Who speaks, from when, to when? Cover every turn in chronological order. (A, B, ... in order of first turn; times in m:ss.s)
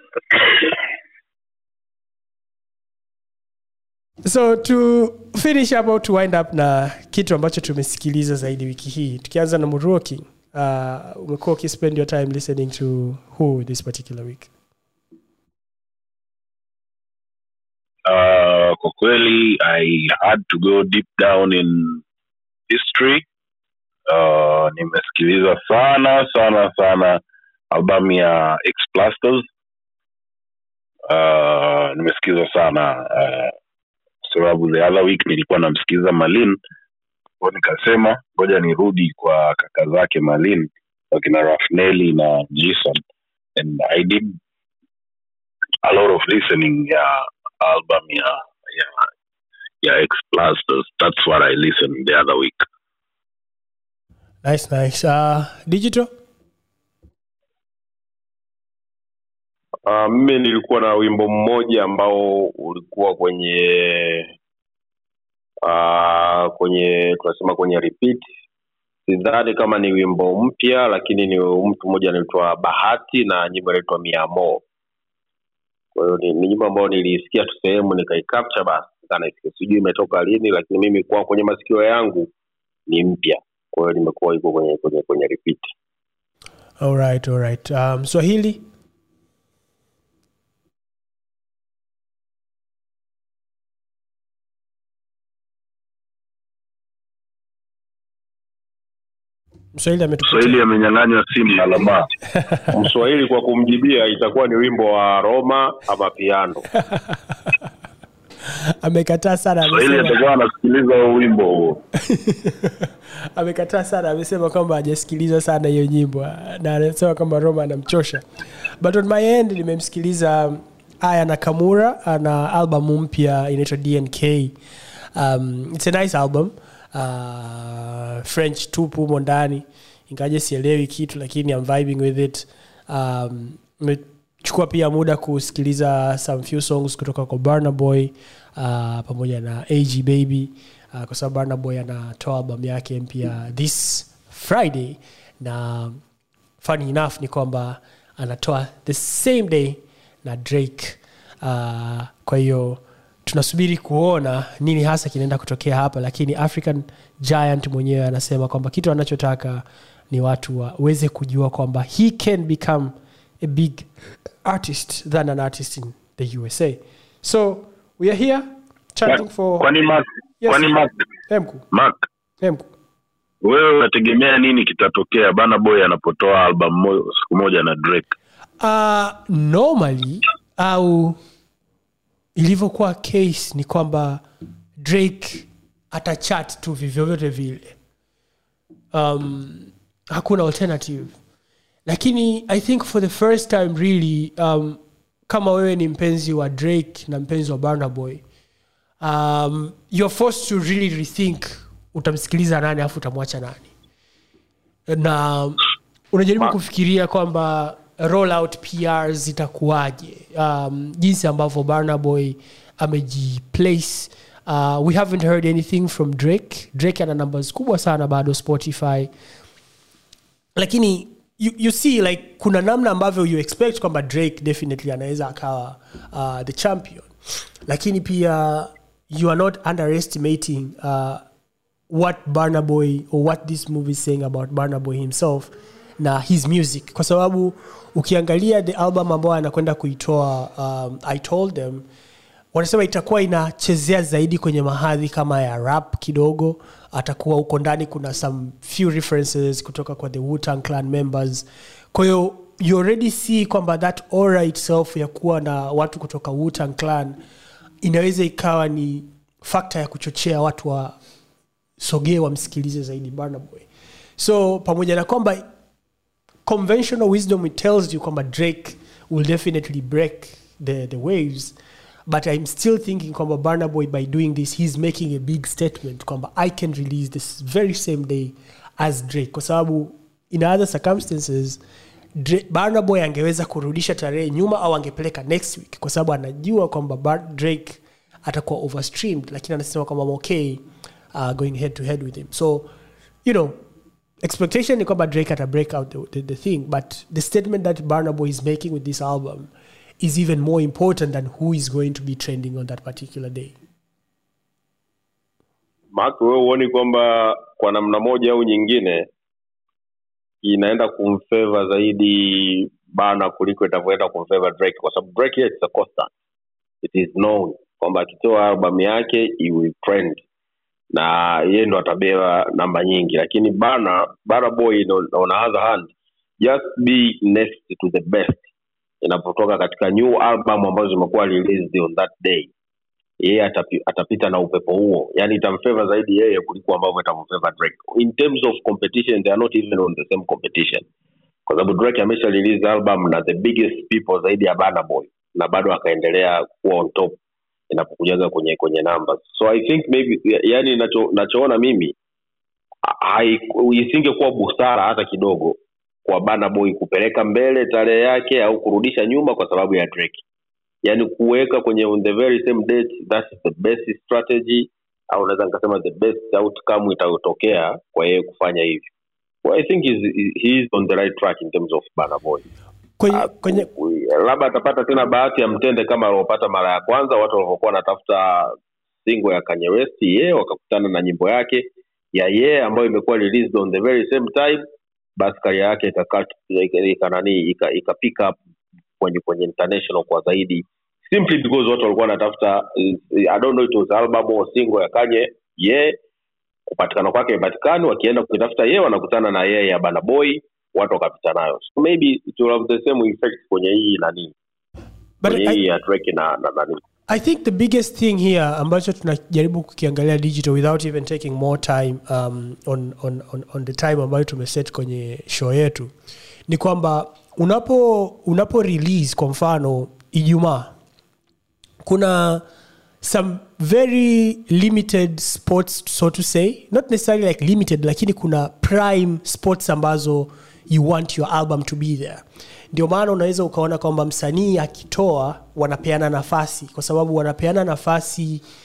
0:04.2-0:14.5 A
0:18.0-0:22.0 B
0:22.7-0:23.2 B
0:24.1-0:27.2 B
0:27.7-0:29.4 B
0:31.1-0:33.5 B
0:34.2-0:36.6 B
0:37.4-0:43.0 B
0:43.6-0:44.4 B
0:45.8-0:49.0 B
0:49.8-0:52.7 B
0:54.4-0:56.1 A
0:59.8-1:04.3 C
1:05.6-1:08.2 C
1:09.1-1:14.6 C
1:15.9-1:22.3 C
1:22.9-1:25.7 C
1:26.8-1:28.6 A
1:39.7-1:40.6 A
1:40.3-1:42.1 B
1:42.7-1:46.6 C
1:48.8-1:50.2 A
1:49.7-1:51.8 B
1:52.0-1:58.2 A
1:58.8-2:04.6 A
2:05.2-2:26.0 A
2:26.6-2:43.9 A
2:44.4-2:49.7 A
2:49.6-2:50.9 B
2:50.4-2:50.7 A
2:51.3-2:51.6 A
2:51.7-2:52.0 B
2:52.4-2:52.7 A
2:53.4-2:58.1 B
2:58.6-3:01.2 A
3:02.4-3:04.2 A
3:04.8-3:07.7 A
3:08.9-3:11.2 A
3:11.8-3:18.2 A
3:19.0-3:23.7 A
3:24.9-3:39.1 A
3:40.6-3:47.1 A
3:47.6-3:51.2 A
3:51.9-4:01.8 A
4:02.5-4:17.2 A
4:17.8-4:21.0 A
4:21.8-4:23.7 A
4:24.2-4:25.4 A
4:26.4-4:31.5 A
4:32.1-4:41.6 A
4:42.2-4:50.6 A
4:51.1-4:52.7 A
4:53.2-4:53.6 A
4:54.2-5:03.6 A
5:05.9-5:09.1 C
5:10.4-5:16.1 C
5:16.8-5:20.2 C
5:20.9-5:28.5 C
5:29.0-5:32.5 C
5:33.2-5:40.8 C
5:41.5-5:47.2 C
5:47.7-5:51.9 C
5:52.8-6:00.2 C
6:00.8-6:08.9 C
6:09.4-6:12.4 C
6:13.0-6:13.7 A
6:13.1-6:24.6 C
6:25.2-6:28.4 C
6:29.0-6:36.0 C
6:36.7-6:44.3 C
6:45.2-6:45.6 A
6:45.2-6:46.8 C
6:47.1-6:55.9 A
6:56.5-7:00.7 A
7:01.8-7:02.4 A
7:03.0-7:18.4 A